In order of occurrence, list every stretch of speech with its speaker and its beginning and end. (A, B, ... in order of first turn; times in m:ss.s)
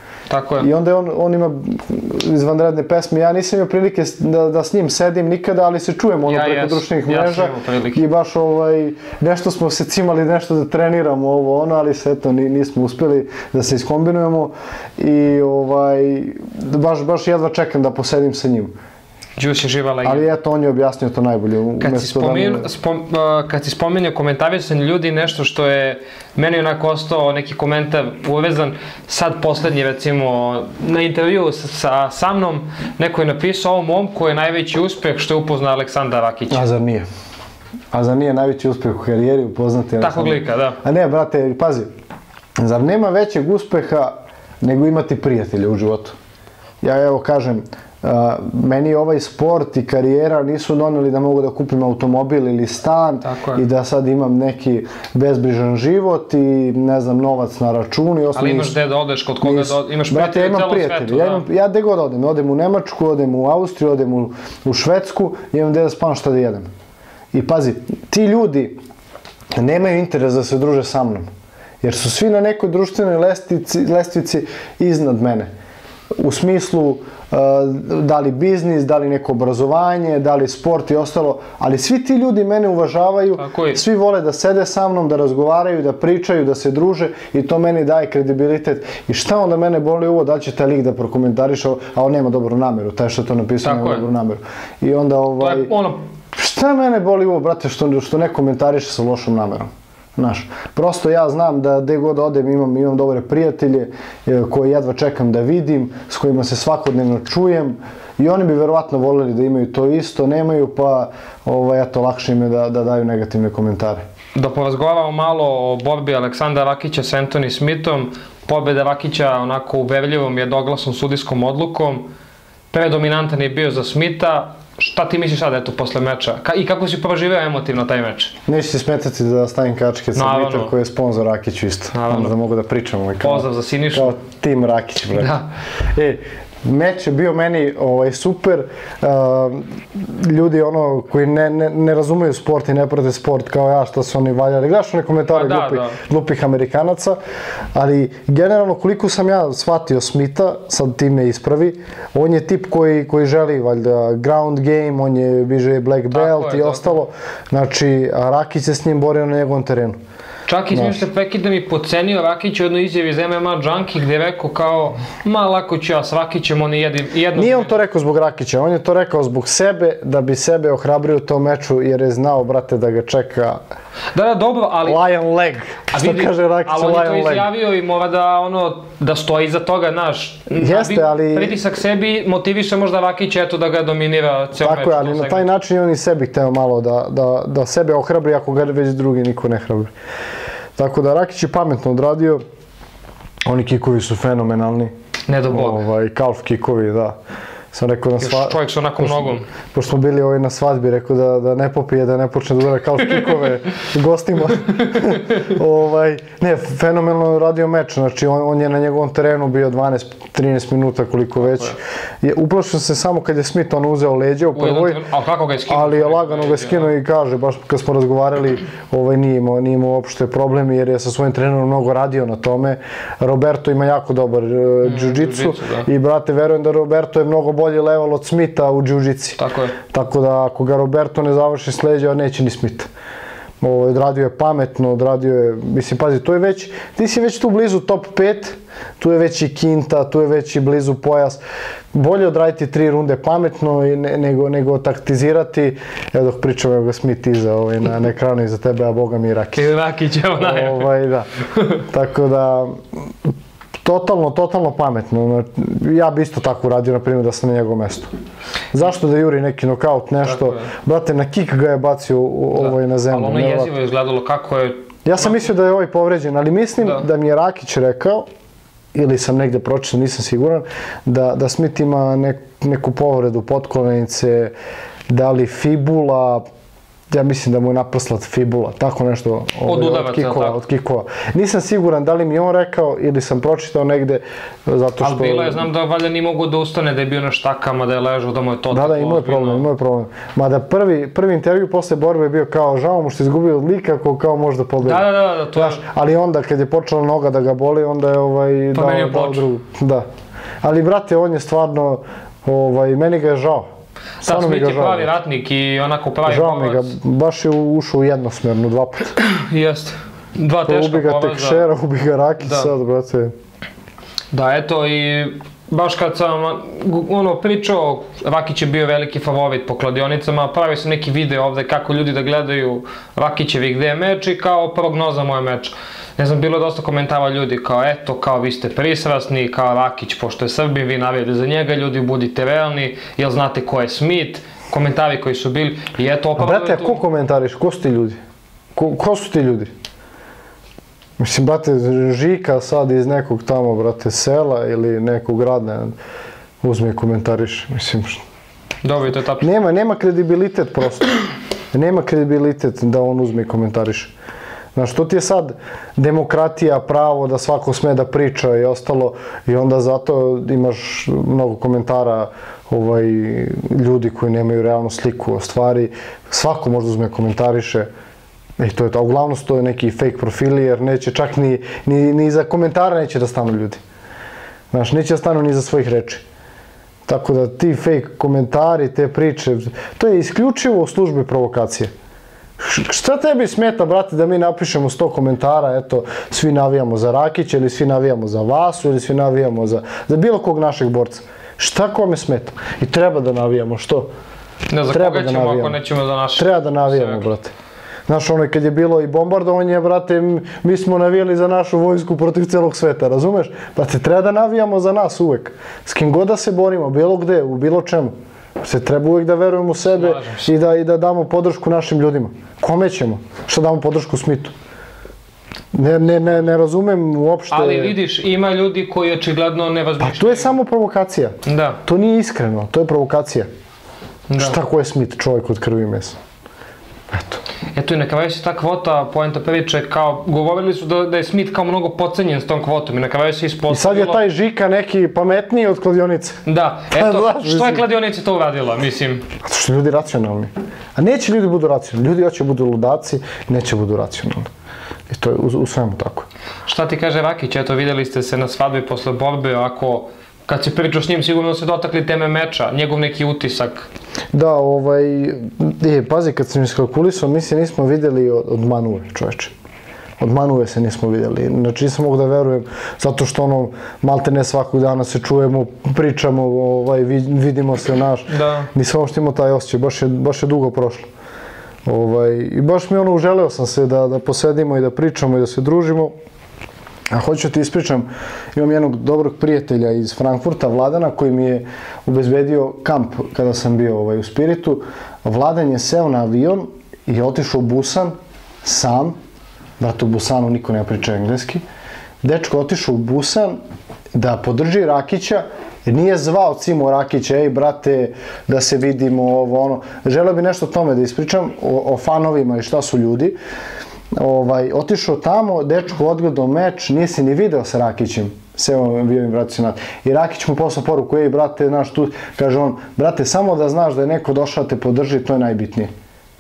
0:00.3-0:00.7 A
0:00.6-0:18.7 B
0:06.3-0:08.0 A
0:19.4-0:20.3 A
0:20.0-0:22.7 B
0:21.8-0:36.7 A
0:36.5-0:37.1 B
0:37.9-0:41.9 B
0:40.0-0:40.8 A
0:42.6-0:46.2 B
0:46.8-0:58.8 B
0:53.2-0:53.6 A
0:58.3-1:01.5 A
0:59.4-1:06.7 B
1:07.3-1:08.8 B
1:09.6-1:11.3 B
1:11.8-1:15.5 B
1:16.2-1:35.7 B
1:23.4-1:23.8 A
1:33.6-1:34.0 A
1:35.4-1:36.0 A
1:36.3-1:54.0 B
1:54.4-2:02.1 A
2:02.7-2:08.4 A
2:08.5-2:15.4 B
2:10.2-2:10.7 A
2:11.9-2:12.3 A
2:13.2-2:14.2 A
2:15.2-2:15.5 A
2:15.9-2:27.2 B
2:25.3-2:26.0 A
2:27.8-2:40.0 B
2:36.1-2:37.0 A
2:40.5-2:47.7 A
2:40.7-2:41.0 B
2:47.4-2:53.6 B
2:54.1-2:55.0 A
2:54.9-2:57.5 B
2:55.9-3:05.5 A
3:00.5-3:01.6 B
3:04.6-3:09.9 B
3:10.8-3:12.4 B
3:13.5-3:14.9 B
3:15.3-3:15.8 A
3:15.5-3:17.2 B
3:17.7-3:35.0 B
3:18.2-3:19.5 A
3:34.6-3:36.9 A
3:35.7-3:52.9 B
3:44.8-3:45.9 A
3:49.4-3:49.8 A
3:53.6-4:01.4 B
4:01.9-4:09.7 B
4:09.5-4:10.9 A
4:10.4-4:11.3 B
4:11.5-4:11.8 A
4:11.9-4:12.8 B
4:13.8-4:18.1 B
4:18.7-4:23.7 B
4:20.2-4:20.7 A
4:22.6-4:25.5 A
4:25.0-4:28.3 B
4:28.9-4:34.5 B
4:35.1-4:36.4 B
4:37.1-4:45.7 B
4:39.6-4:40.6 A
4:45.0-4:49.6 A
4:48.7-5:00.1 B
4:54.8-4:55.8 A
4:58.7-4:59.4 A
5:00.6-5:03.7 B
5:04.2-5:07.0 A
5:04.2-5:05.1 B
5:06.3-5:09.1 B
5:09.2-5:11.6 A
5:10.7-5:13.3 B
5:12.4-5:12.7 A
5:14.3-5:37.0 A
5:36.4-5:38.2 B
5:38.8-5:39.7 B
5:41.2-5:46.0 B
5:46.6-5:48.2 B
5:48.8-5:49.5 A
5:49.4-5:51.2 B
5:51.7-5:54.1 B
5:54.8-6:07.9 B
6:08.6-6:13.8 B
6:14.7-6:16.2 B
6:17.1-6:21.9 B
6:22.6-6:34.1 B
6:34.7-6:37.3 A
6:34.9-6:35.8 B
6:36.4-6:37.5 B
6:38.1-6:54.5 B
6:49.8-6:50.5 A
6:55.7-6:58.0 B
6:57.5-7:00.6 A
7:00.0-7:03.5 B
7:01.5-7:01.8 A
7:04.3-7:04.6 A
7:04.4-7:06.2 B
7:07.1-7:07.4 B
7:07.8-7:14.2 A
7:13.7-7:17.8 B
7:16.5-7:19.3 A
7:19.4-7:24.5 B
7:25.1-7:26.3 B
7:26.7-7:33.9 A
7:34.3-7:39.5 B
7:40.2-7:51.1 B
7:48.3-7:48.7 A
7:51.9-7:56.1 B
7:57.1-8:09.2 B
8:09.8-8:11.6 B
8:12.2-8:13.6 B
8:14.1-8:23.4 B
8:24.1-8:35.9 B